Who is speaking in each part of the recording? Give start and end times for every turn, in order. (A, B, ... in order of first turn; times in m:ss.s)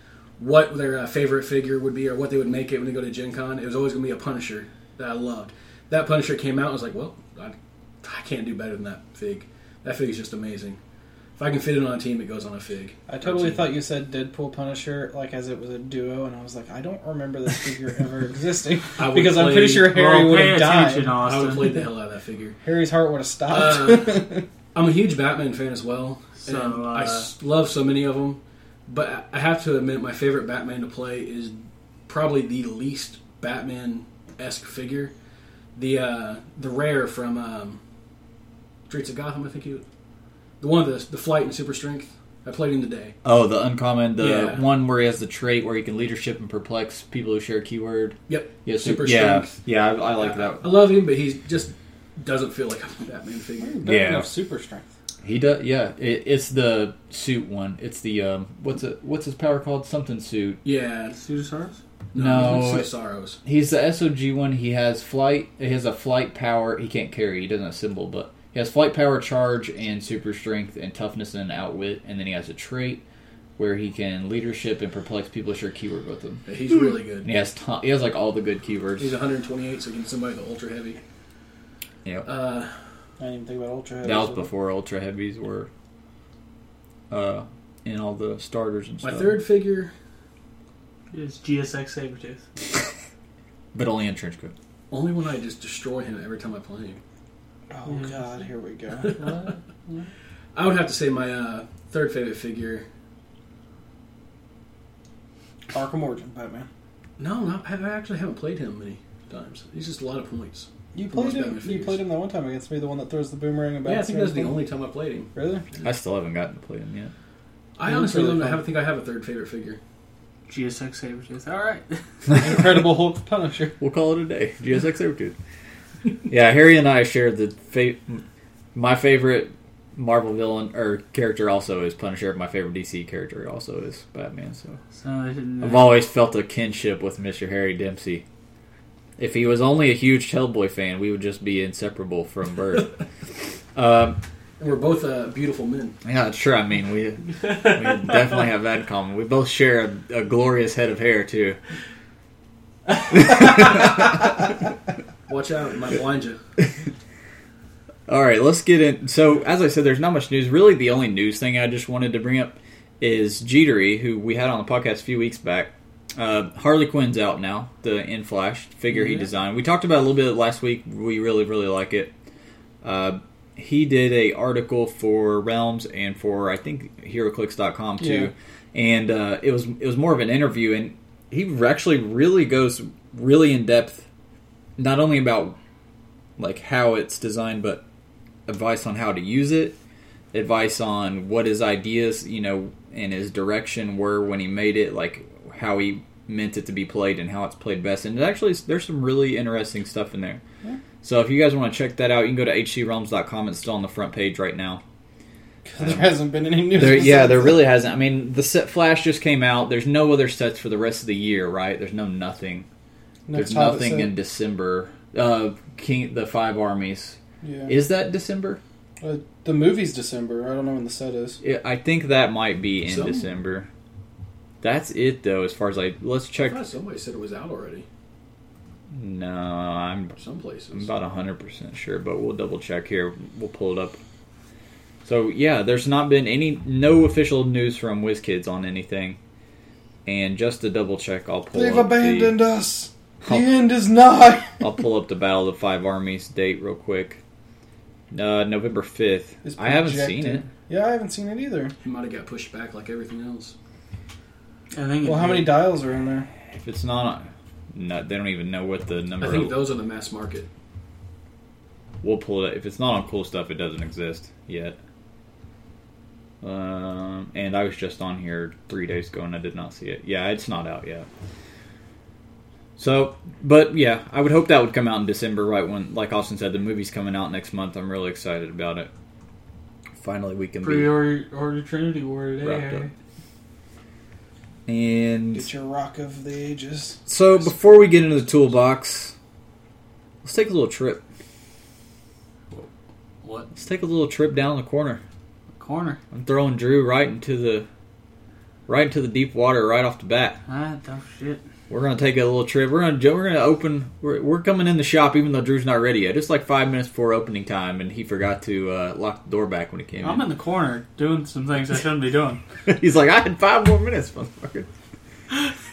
0:00.4-0:10.8 A
0:11.4-0:13.6 A
0:13.1-0:21.2 B
0:19.0-0:19.9 A
0:19.8-0:21.8 C
0:21.2-0:22.6 A
0:22.6-0:24.4 B
0:23.5-0:35.1 A
0:26.4-0:27.3 C
0:35.8-0:37.8 A
0:38.9-0:39.8 A
0:40.6-0:43.2 A
0:43.2-0:50.6 D
0:44.2-0:44.6 A
0:48.3-0:49.6 A
0:50.2-0:53.8 A
0:53.6-0:54.9 B
0:53.8-0:54.3 D
0:55.2-1:00.6 D
1:00.6-1:01.2 A
1:01.2-1:01.8 C
1:02.1-1:03.4 A
1:02.2-1:02.9 D
1:03.4-1:13.0 D
1:13.6-1:16.4 D
1:16.5-1:17.3 A
1:17.2-1:19.2 D
1:19.0-1:21.0 A
1:22.3-1:22.7 A
1:23.2-1:24.5 B
1:24.0-1:25.7 D
1:27.1-1:29.4 D
1:29.0-1:29.9 A
1:31.1-1:32.4 C
1:33.7-1:34.5 D
1:34.9-1:37.0 A
1:37.7-1:39.5 B
1:37.9-1:38.2 C
1:40.5-1:42.9 A
1:45.7-1:46.7 B
1:47.2-1:52.0 A
1:50.9-1:54.6 B
1:53.8-1:55.9 A
1:55.4-1:55.6 B
1:55.8-1:57.1 D
1:57.8-1:59.8 A
1:57.9-1:58.6 B
2:00.5-2:02.0 C
2:02.4-2:03.8 B
2:03.8-2:05.4 D
2:06.3-2:08.2 D
2:08.8-2:14.8 D
2:15.0-2:16.0 C
2:15.6-2:18.2 D
2:19.2-2:23.0 D
2:23.8-2:24.2 D
2:24.6-2:26.0 A
2:26.0-2:31.6 D
2:33.1-2:34.0 D
2:35.3-2:36.4 A
2:38.1-2:52.1 D
2:52.8-3:04.1 D
2:58.0-2:58.3 B
3:04.8-3:05.6 D
3:06.4-3:07.8 D
3:08.5-3:09.8 D
3:10.3-3:20.4 D
3:21.0-3:24.8 D
3:25.6-3:27.6 B
3:25.8-3:26.1 D
3:26.7-3:32.7 D
3:33.3-3:34.1 B
3:33.3-3:38.6 D
3:37.4-3:37.7 B
3:39.0-3:41.4 B
3:41.4-3:43.7 D
3:42.8-3:43.3 A
3:44.6-3:46.6 D
3:46.4-3:47.9 A
3:48.9-3:50.2 D
3:50.2-3:50.9 A
3:50.7-3:54.0 D
3:55.0-3:59.2 D
4:00.1-4:02.4 D
4:01.5-4:04.6 B
4:03.2-4:03.5 D
4:04.6-4:07.2 D
4:08.1-4:10.4 D
4:09.4-4:11.7 B
4:11.8-4:13.5 A
4:14.7-4:15.5 C
4:15.0-4:16.3 B
4:16.5-4:19.6 D
4:19.2-4:20.5 A
4:22.0-4:24.8 D
4:26.4-4:31.1 D
4:32.8-4:38.9 D
4:40.0-4:40.9 D
4:40.6-4:42.9 C
4:42.4-4:42.8 D
4:44.7-4:45.5 D
4:45.3-4:47.1 B
4:47.1-4:49.2 D
4:50.2-4:51.0 D
4:53.2-4:53.5 C
4:53.5-4:55.0 D
4:55.6-4:56.0 C
4:56.1-4:57.7 D
4:58.7-5:00.4 D
5:00.5-5:01.4 C
5:01.7-5:10.2 D
5:10.0-5:12.4 C
5:12.7-5:14.7 D